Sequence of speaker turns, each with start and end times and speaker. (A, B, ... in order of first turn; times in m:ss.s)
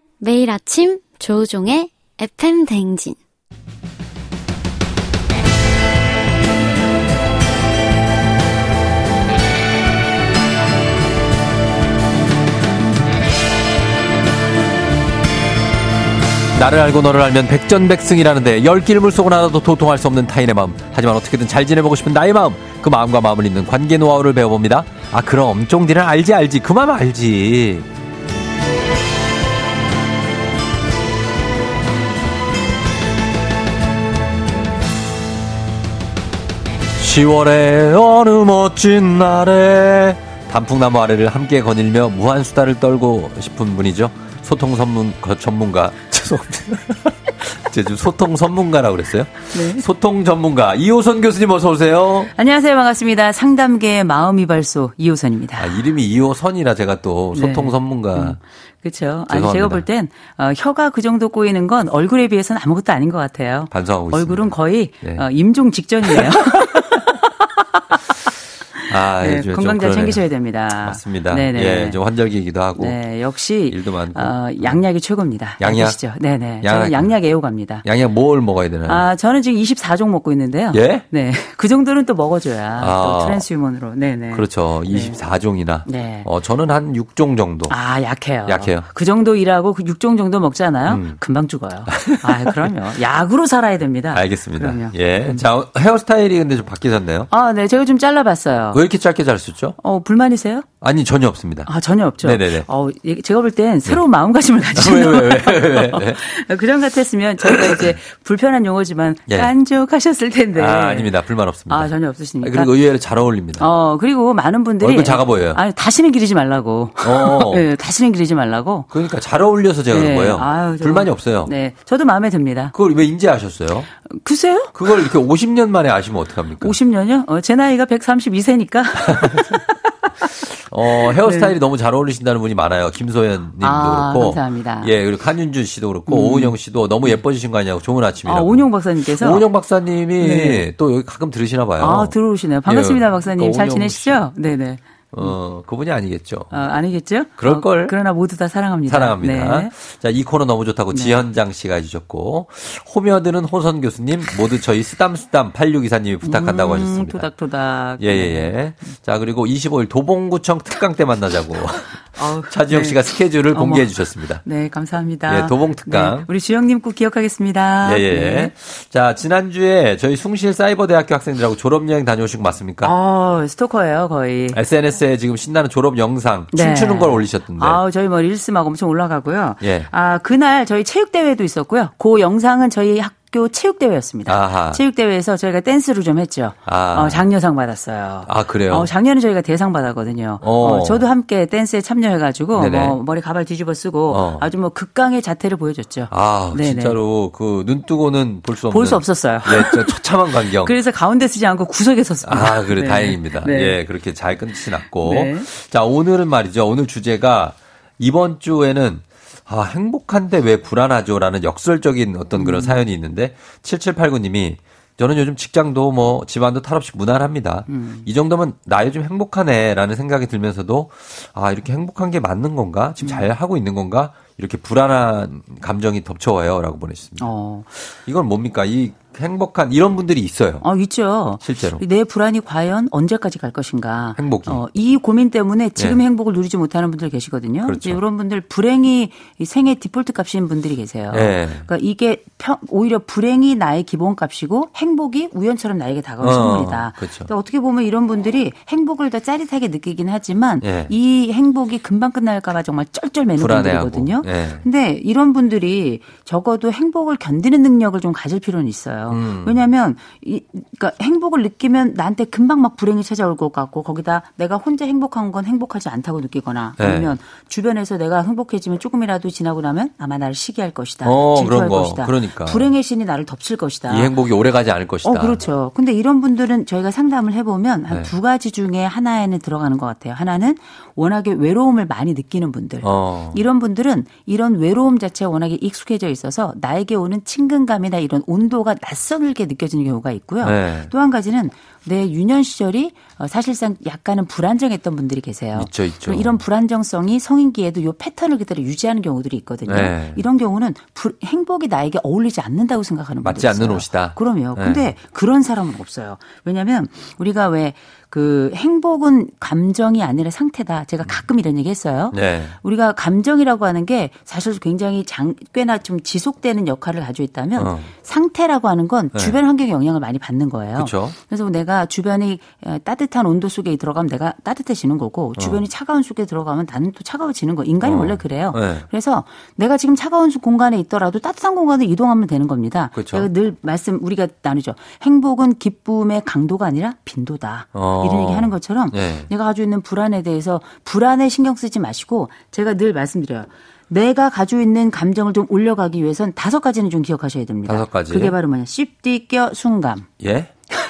0:00.2-0:03.2 A
0:16.5-0:27.8 B
0:37.0-0:52.3 B
0:49.5-0:49.9 C
0:52.3-0:55.8 C
0:55.6-0:58.4 B
0:57.3-1:07.4 C
0:59.3-0:59.8 B
1:03.7-1:05.2 B
1:06.0-1:06.9 B
1:08.9-1:12.0 C
1:08.9-1:13.0 B
1:12.8-1:17.8 C
1:13.6-1:14.8 B
1:15.6-1:16.0 B
1:16.6-1:17.1 B
1:17.8-1:19.0 B
1:18.8-1:25.2 C
1:20.7-1:21.0 B
1:22.8-1:23.4 B
1:24.3-1:27.8 B
1:25.8-1:26.3 C
1:27.7-1:35.4 C
1:28.4-1:28.8 B
1:30.9-1:31.2 B
1:31.9-1:32.7 B
1:34.1-1:37.3 B
1:37.3-1:38.8 C
1:38.7-1:39.8 B
1:39.8-1:40.6 C
1:40.8-1:41.7 B
1:41.6-1:51.1 C
1:42.2-1:42.7 B
1:44.7-1:46.2 B
1:47.4-1:47.8 B
1:50.5-1:53.7 B
1:51.7-1:52.7 C
1:53.6-1:58.9 C
1:54.8-1:55.6 B
1:57.0-1:57.7 B
1:58.9-2:01.5 B
1:59.9-2:02.7 C
2:02.7-2:03.9 B
2:04.0-2:05.1 C
2:04.7-2:06.8 B
2:06.6-2:10.3 C
2:09.0-2:09.6 B
2:10.5-2:24.2 B
2:10.9-2:11.5 C
2:13.6-2:15.0 C
2:16.1-2:17.2 C
2:18.2-2:19.5 C
2:20.2-2:20.7 C
2:21.8-2:25.4 C
2:25.1-2:26.5 B
2:26.5-2:29.7 C
2:27.4-2:27.9 B
2:28.9-2:37.3 B
2:30.9-2:31.2 C
2:36.2-2:38.6 C
2:38.0-2:44.4 B
2:42.1-2:48.5 C
2:45.3-2:46.3 B
2:47.8-2:52.9 B
2:52.8-2:54.6 C
2:54.5-2:57.8 B
2:56.5-3:17.0 C
2:59.6-2:59.9 B
3:04.2-3:04.8 B
3:06.6-3:07.3 B
3:08.2-3:08.9 B
3:10.4-3:11.0 B
3:12.5-3:13.0 B
3:14.1-3:14.5 B
3:16.1-3:20.8 B
3:18.7-3:23.8 C
3:22.2-3:47.3 B
3:25.0-3:25.5 C
3:32.3-3:32.8 C
3:37.7-3:38.1 C
3:43.0-3:43.3 C
3:47.2-3:47.7 C
3:48.0-3:50.6 B
3:50.6-4:34.2 C
3:51.4-3:51.8 B
3:54.2-3:54.6 B
3:57.6-3:58.0 B
4:01.1-4:01.7 B
4:06.2-4:07.3 B
4:10.6-4:10.9 B
4:13.4-4:14.6 B
4:19.1-4:19.6 B
4:26.8-4:27.2 B
4:31.0-4:32.7 B
4:33.9-4:35.4 B
4:35.0-5:50.1 C
4:42.8-4:43.4 B
4:50.4-4:50.9 B
4:55.5-4:56.4 B
4:59.6-5:00.2 B
5:03.2-5:04.9 B
5:12.1-5:12.5 B
5:17.6-5:17.9 B
5:20.8-5:21.2 B
5:25.4-5:25.6 B
5:27.8-5:28.8 B
5:32.9-5:33.3 B
5:37.7-5:39.3 B
5:47.6-5:48.4 B
5:50.2-5:50.5 B